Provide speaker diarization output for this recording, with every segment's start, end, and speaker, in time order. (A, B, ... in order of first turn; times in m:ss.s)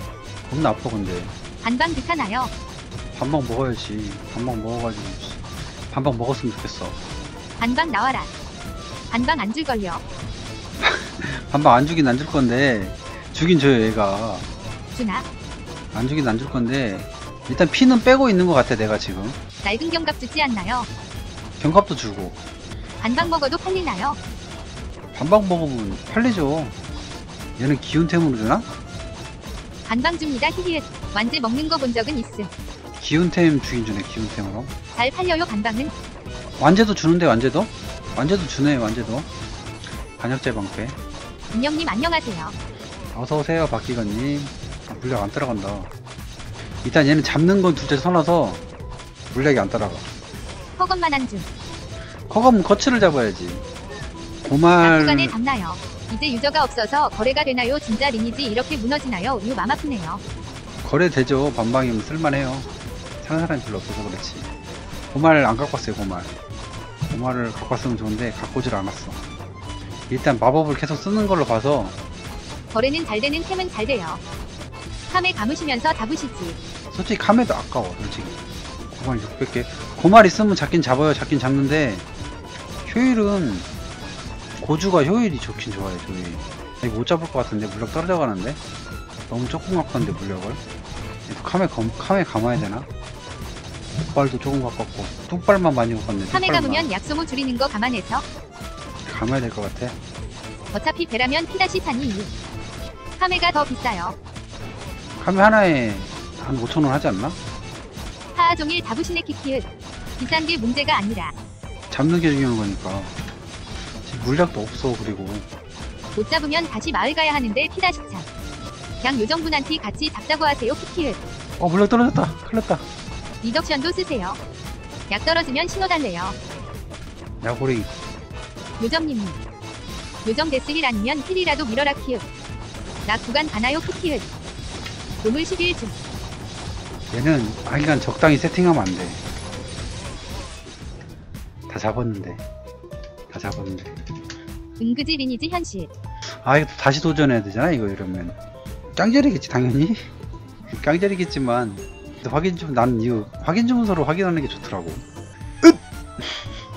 0:00.5-0:01.3 A
0:01.6-0:02.5 B
0:03.1-0:07.0 A
0:07.6-0:08.3 B
0:09.1-0:10.0 B
0:10.8-0:14.5 A
0:14.9-0:15.2 B
0:15.9-0:19.4 A
0:19.6-0:20.9 B
0:21.6-0:22.4 A
0:23.0-0:24.2 B
0:25.1-0:26.8 A
0:27.6-0:28.7 A
0:29.9-0:32.5 B
0:33.0-0:34.7 A
0:34.9-0:35.9 B
0:36.6-0:39.3 A
0:40.2-0:41.0 A
0:41.5-0:42.5 B
0:43.1-0:45.9 A
0:46.8-0:48.6 A
0:49.3-0:50.1 A
0:50.8-0:51.5 B
0:52.3-0:53.6 A
0:54.4-0:55.4 A
0:54.8-1:00.2 B
1:00.8-1:02.7 A
1:03.2-1:04.5 A
1:05.1-1:06.3 A
1:07.1-1:09.2 A
1:10.1-1:12.0 A
1:12.7-1:14.2 B
1:15.1-1:16.6 B
1:16.9-1:18.4 A
1:18.9-1:22.0 A
1:22.8-1:23.7 A
1:24.6-1:28.6 A
1:29.3-1:30.6 A
1:31.3-1:32.9 A
1:34.0-1:36.9 A
1:36.3-1:38.2 B
1:39.0-1:40.0 A
1:40.7-1:42.3 B
1:43.2-1:44.1 B
1:45.2-1:47.4 A
1:48.3-1:51.3 B
1:51.9-1:53.1 A
1:54.0-1:55.5 A
1:56.1-1:58.3 B
1:59.0-2:01.2 B
2:01.6-2:02.8 A
2:03.4-2:04.4 B
2:05.1-2:06.4 B
2:07.4-2:07.9 A
2:08.8-2:09.4 B
2:10.2-2:12.2 B
2:13.0-2:14.3 B
2:15.2-2:16.0 B
2:17.1-2:19.2 A
2:21.7-2:22.4 A
2:23.3-2:24.0 A
2:24.8-2:25.9 B
2:26.4-2:28.4 A
2:29.0-2:30.1 A
2:30.7-2:35.0 A
2:35.6-2:36.5 A